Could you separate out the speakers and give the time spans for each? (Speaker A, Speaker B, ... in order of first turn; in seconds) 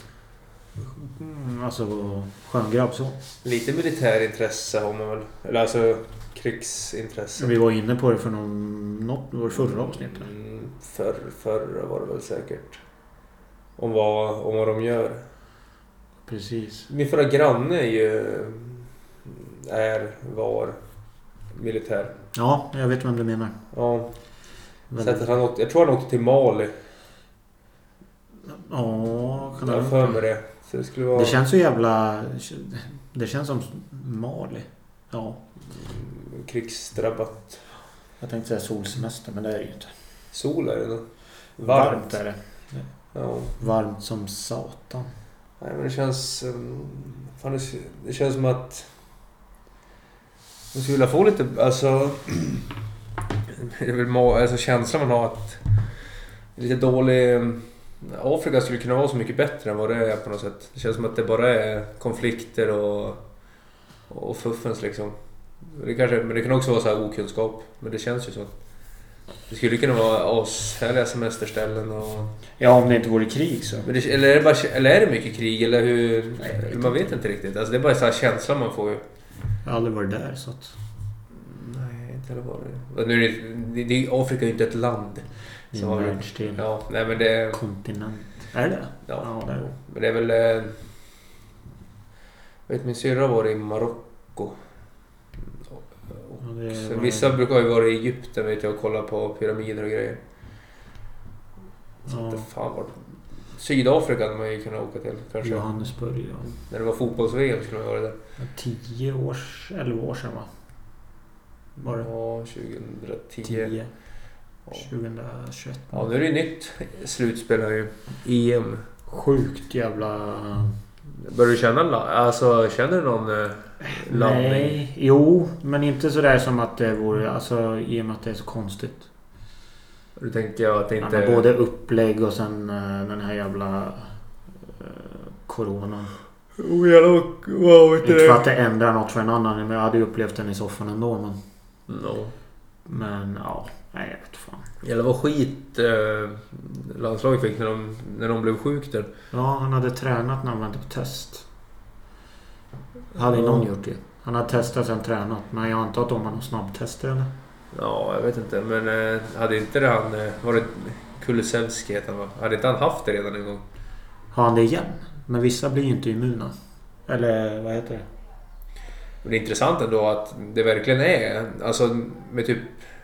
Speaker A: 0.8-3.2, 7.4-10.3, 16.3-16.9, 22.3-23.6, 24.9-25.2, 28.5-30.2, 31.1-35.4, 38.2-39.9, 41.6-42.8, 43.6-45.1, 72.6-73.9, 76.4-77.2, 79.7-80.7, 85.7-86.7, 87.5-89.7, 96.4-97.4, 102.1-102.5, 105.4-106.5, 108.4-110.5, 111.8-112.1, 113.4-113.9, 114.7-116.1, 119.1-120.8, 123.8-129.1, 131.0-134.1, 134.7-136.1, 138.0-141.4, 142.9-144.7, 149.3-151.5, 153.2-157.3, 164.3-166.5, 167.1-168.1
Speaker B: 3.4-7.5, 9.9-12.8, 13.8-15.2, 16.9-20.8, 21.6-22.1, 23.7-24.1, 25.0-26.7, 29.6-31.4, 35.7-37.6, 40.3-41.0, 41.6-42.1, 43.1-43.6, 45.6-48.9, 50.7-52.7, 53.5-55.6, 56.6-63.2, 64.1-65.2, 65.7-68.5, 69.5-72.3, 73.8-79.0, 81.3-87.6, 89.1-90.8, 92.7-94.6, 95.7-100.2, 102.1-103.0, 103.5-105.7, 106.5-108.2, 111.8-113.7, 115.9-118.9, 121.2-124.8, 130.2-131.4, 136.6-138.5, 141.9-142.3, 144.8-149.1, 153.2-153.7, 157.7-163.6, 169.2-172.8